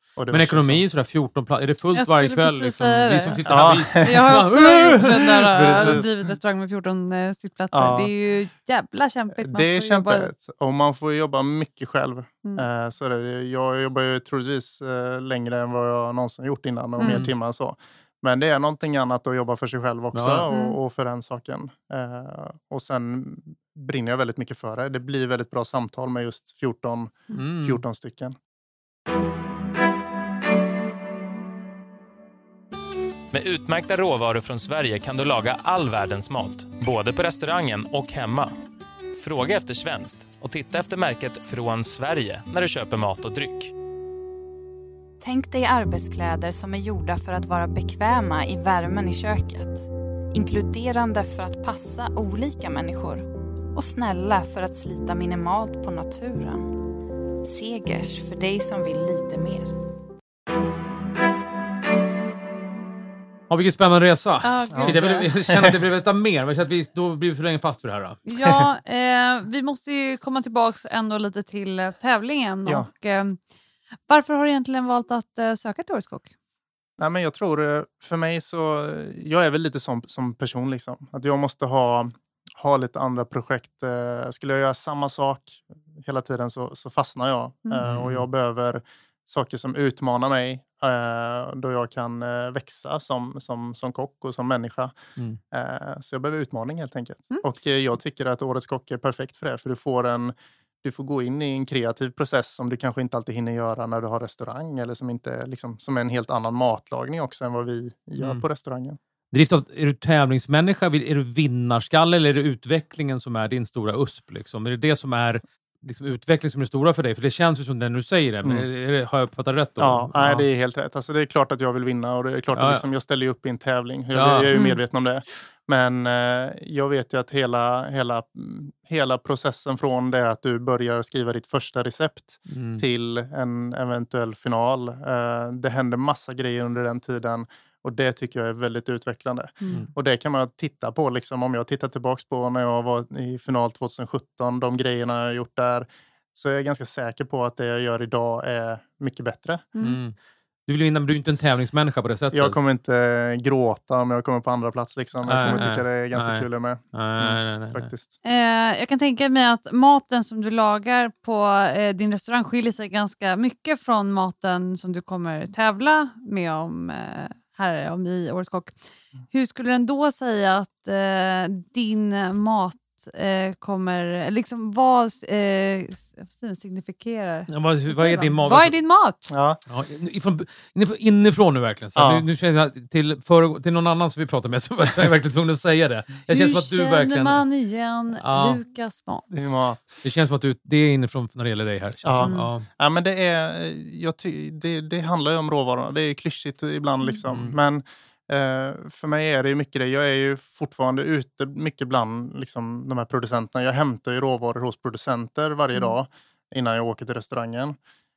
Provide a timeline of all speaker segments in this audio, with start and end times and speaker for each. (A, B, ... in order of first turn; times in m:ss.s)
0:00.2-0:00.8 A
0:00.3-0:06.0 B
0:01.9-0:03.5 C
0:03.5-0:04.4 A
0:04.0-0:10.3 C
0:05.4-0:06.1 A
0:07.7-0:08.1 A
0:09.4-0:28.3 A
0:17.0-0:17.2 C
0:17.0-0:17.3 B
0:20.1-0:20.4 B
0:20.5-0:20.8 C
0:27.3-0:27.8 B
0:33.3-0:38.5 D
0:39.2-0:43.7 D
0:45.2-0:56.8 E
0:57.4-0:59.7 E
1:03.5-1:08.2 B
1:04.4-1:05.3 C
1:04.7-1:05.8 A
1:08.2-1:13.4 C
1:14.1-1:16.3 C
1:17.0-1:34.9 A
1:27.8-1:28.2 B
1:35.5-1:49.0 A
1:49.3-2:00.4 B
1:59.8-2:29.6 A
2:02.5-2:02.8 B
2:04.1-2:04.6 B
2:04.5-2:04.8 C
2:12.5-2:12.8 B
2:19.6-2:19.9 C
2:29.8-2:30.1 B
2:30.7-2:32.6 B
2:32.3-2:38.1 A
2:35.2-2:37.9 B
2:38.2-2:48.8 C
2:49.3-2:59.2 C
2:57.5-2:58.7 B
2:59.3-2:59.6 A
2:59.7-3:07.4 B
3:02.0-3:02.2 A
3:06.3-3:09.3 C
3:08.2-3:08.6 B
3:09.3-3:10.0 A
3:10.0-3:12.7 B
3:12.0-3:27.8 A
3:12.2-3:12.5 C
3:17.3-3:17.6 B